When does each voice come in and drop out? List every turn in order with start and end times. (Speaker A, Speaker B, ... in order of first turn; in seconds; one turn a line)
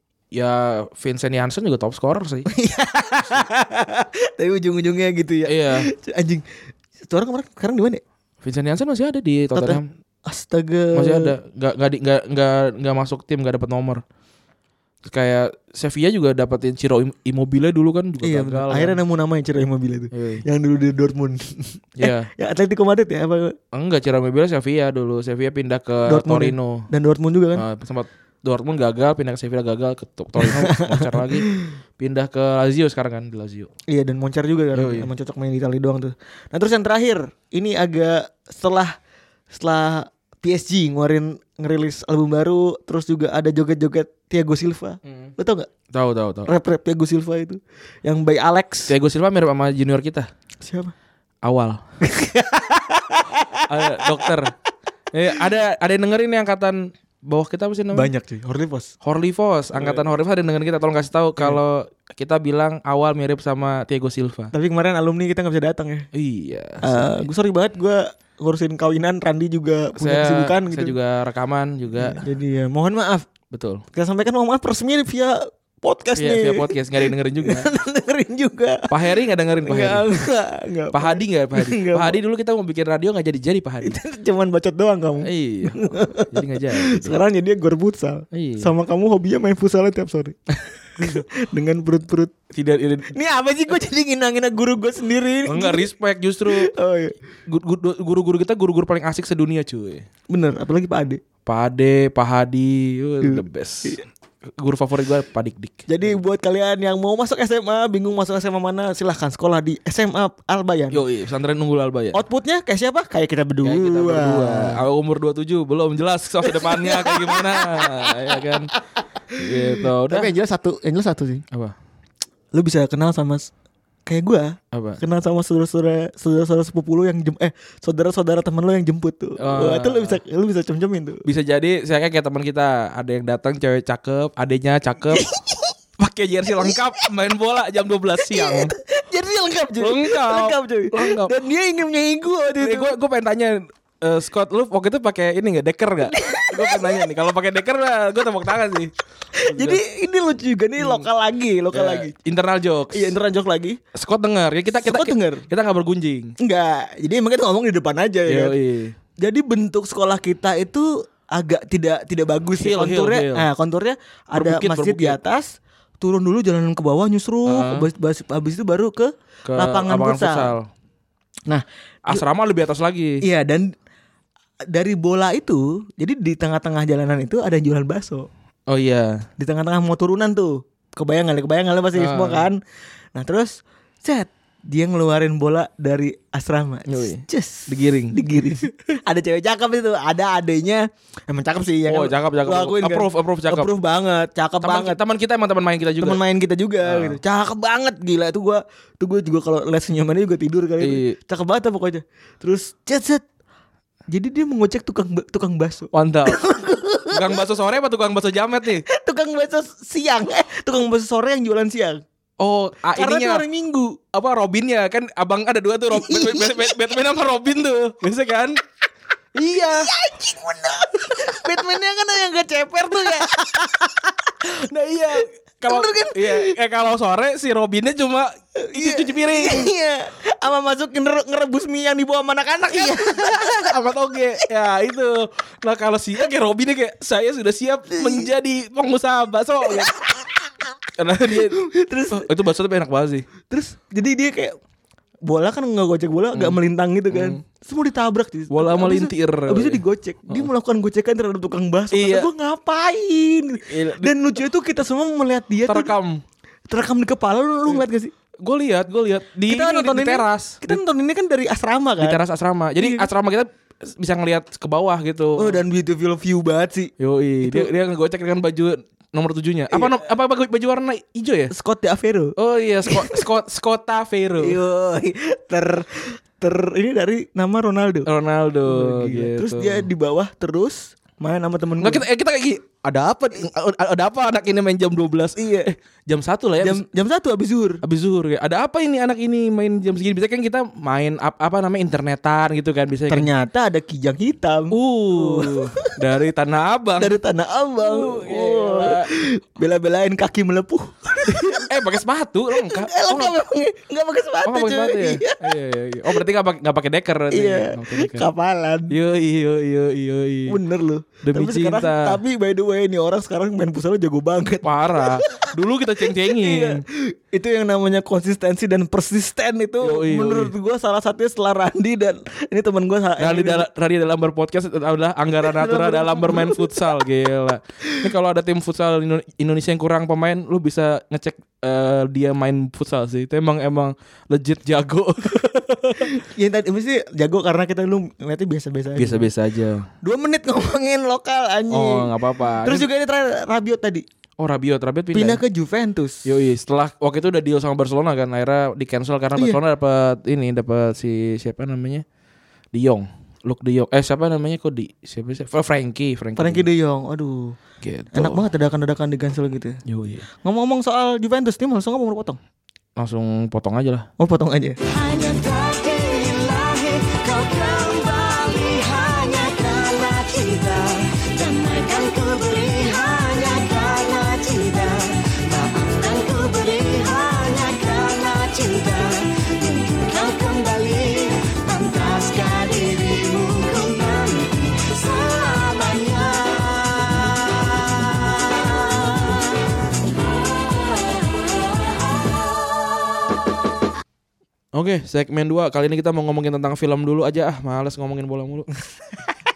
Speaker A: 0.3-2.5
Speaker B: 2.5-6.4
Speaker A: 5.5-5.9
Speaker B: 7.0-8.0
Speaker A: 8.4-9.9
Speaker B: 9.5-11.3
Speaker A: 10.9-14.0
Speaker A: 15.0-19.0
Speaker B: 18.2-23.6
Speaker A: 20.1-20.4
Speaker A: 22.0-22.3
Speaker A: 23.7-26.9
Speaker B: 26.1-27.6
Speaker A: 27.5-31.5
Speaker B: 30.4-31.7
Speaker A: 32.0-33.7
Speaker B: 33.9-39.0
Speaker A: 34.7-35.1
Speaker B: 39.5-45.7
Speaker A: 45.9-46.5
Speaker B: 46.5-48.9
Speaker A: 48.9-50.3
Speaker B: 50.6-50.9
Speaker A: 51.4-51.8
Speaker B: 52.0-54.2
Speaker A: 53.7-54.5
Speaker A: 55.1-58.1
Speaker B: 57.9-58.9
Speaker A: 59.0-64.5
Speaker B: 59.8-60.0
Speaker B: 64.5-66.1
Speaker A: 66.1-67.2
Speaker B: 66.8-70.9
Speaker A: 70.0-72.2
Speaker B: 71.9-73.3
Speaker A: 73.5-73.8
Speaker B: 73.9-78.9
Speaker A: 76.2-77.7
Speaker A: 78.9-80.1
Speaker B: 79.6-82.2
Speaker A: 80.9-84.0
Speaker B: 83.8-90.4
Speaker A: 85.2-87.2
Speaker A: 88.3-88.7
Speaker B: 91.0-92.3
Speaker A: 92.5-93.1
Speaker B: 93.1-95.9
Speaker A: 95.5-96.7
Speaker B: 96.5-97.2
Speaker A: 97.5-100.0
Speaker B: 100.3-101.2
Speaker A: 101.5-106.1
Speaker B: 103.2-104.0
Speaker B: 105.9-111.0
Speaker A: 110.9-112.2
Speaker B: 112.1-114.8
Speaker A: 113.6-118.7
Speaker B: 116.4-118.2
Speaker B: 119.3-121.4
Speaker A: 119.3-120.3
Speaker B: 122.5-123.5
Speaker B: 124.0-131.2
Speaker A: 124.7-125.0
Speaker A: 129.4-130.2
Speaker A: 131.2-135.2
Speaker B: 135.1-135.7
Speaker A: 136.0-138.7
Speaker B: 138.2-142.9
Speaker A: 139.8-141.3
Speaker A: 142.6-148.9
Speaker B: 146.1-147.0
Speaker B: 149.3-152.1
Speaker A: 149.5-149.8
Speaker A: 150.8-151.1
Speaker A: 151.7-153.1
Speaker B: 152.9-153.8
Speaker A: 153.9-156.3
Speaker B: 154.8-155.5
Speaker B: 156.4-158.6
Speaker A: 158.2-158.9
Speaker B: 159.2-170.5
Speaker A: 162.6-163.5
Speaker A: 164.3-165.2
Speaker A: 167.4-167.9
Speaker A: 169.4-170.7
Speaker B: 171.5-172.2
Speaker A: 172.1-173.2
Speaker B: 173.2-173.7
Speaker B: 174.7-178.3
Speaker A: 178.7-179.2
Speaker B: 179.4-182.6
Speaker A: 181.9-182.5
Speaker B: 183.1-195.0
Speaker A: 186.9-188.2
Speaker A: 191.9-193.7
Speaker A: 194.6-196.2
Speaker B: 196.0-203.2
Speaker A: 196.8-197.2
Speaker A: 200.8-201.2
Speaker B: 204.1-207.4
Speaker A: 205.9-206.4
Speaker A: 207.1-208.8
Speaker B: 208.8-212.0
Speaker A: 212.4-213.4
Speaker B: 212.9-214.0
Speaker A: 214.1-218.6
Speaker B: 215.9-216.8
Speaker A: 219.3-219.9
Speaker B: 219.7-224.0
Speaker A: 223.1-223.4
Speaker A: 224.4-229.7
Speaker B: 225.7-226.6
Speaker B: 228.6-233.8
Speaker A: 232.7-239.9
Speaker B: 237.9-238.3
Speaker B: 239.9-240.2
Speaker A: 241.0-241.6
Speaker B: 241.3-242.3
Speaker A: 242.1-243.3
Speaker B: 243.5-244.6
Speaker B: 245.2-255.9
Speaker A: 246.3-246.6
Speaker A: 247.1-247.4
Speaker A: 248.5-250.5
Speaker A: 251.9-252.3
Speaker A: 253.7-254.1
Speaker A: 255.7-256.2
Speaker B: 256.7-258.1
Speaker A: 258.4-260.8
Speaker B: 259.5-262.2
Speaker A: 262.0-265.6
Speaker B: 262.8-263.1
Speaker B: 265.4-267.7
Speaker A: 267.0-271.5
Speaker B: 269.7-270.0
Speaker B: 271.5-272.3
Speaker A: 272.4-274.6
Speaker B: 272.9-273.2
Speaker B: 274.4-278.1
Speaker A: 278.1-279.9
Speaker B: 278.6-282.0
Speaker A: 281.8-286.8
Speaker B: 285.4-285.7
Speaker B: 286.6-287.8
Speaker A: 287.8-293.3
Speaker B: 293.1-295.9
Speaker A: 294.7-297.2
Speaker B: 297.0-301.7
Speaker A: 297.8-299.1
Speaker A: 301.3-303.4
Speaker B: 302.5-305.4
Speaker A: 304.4-308.2
Speaker B: 307.3-308.9
Speaker A: 308.9-310.6
Speaker B: 310.5-315.5
Speaker A: 311.2-312.2
Speaker A: 314.6-316.8
Speaker B: 316.1-323.6
Speaker A: 319.8-320.5
Speaker A: 323.2-336.1
Speaker B: 325.4-327.0
Speaker B: 327.8-328.1
Speaker B: 336.0-339.3
Speaker A: 338.9-339.9
Speaker B: 340.0-344.0
Speaker A: 341.7-342.9
Speaker A: 344.4-345.4
Speaker B: 345.1-346.3
Speaker A: 346.2-352.0
Speaker A: 352.7-356.6
Speaker B: 356.4-357.6
Speaker A: 357.8-358.4
Speaker B: 358.1-359.8
Speaker A: 359.9-360.2
Speaker B: 360.4-362.4
Speaker A: 363.0-364.1
Speaker B: 364.2-364.8
Speaker C: 364.9-389.3
Speaker C: 390.6-392.4
Speaker A: 394.7-398.7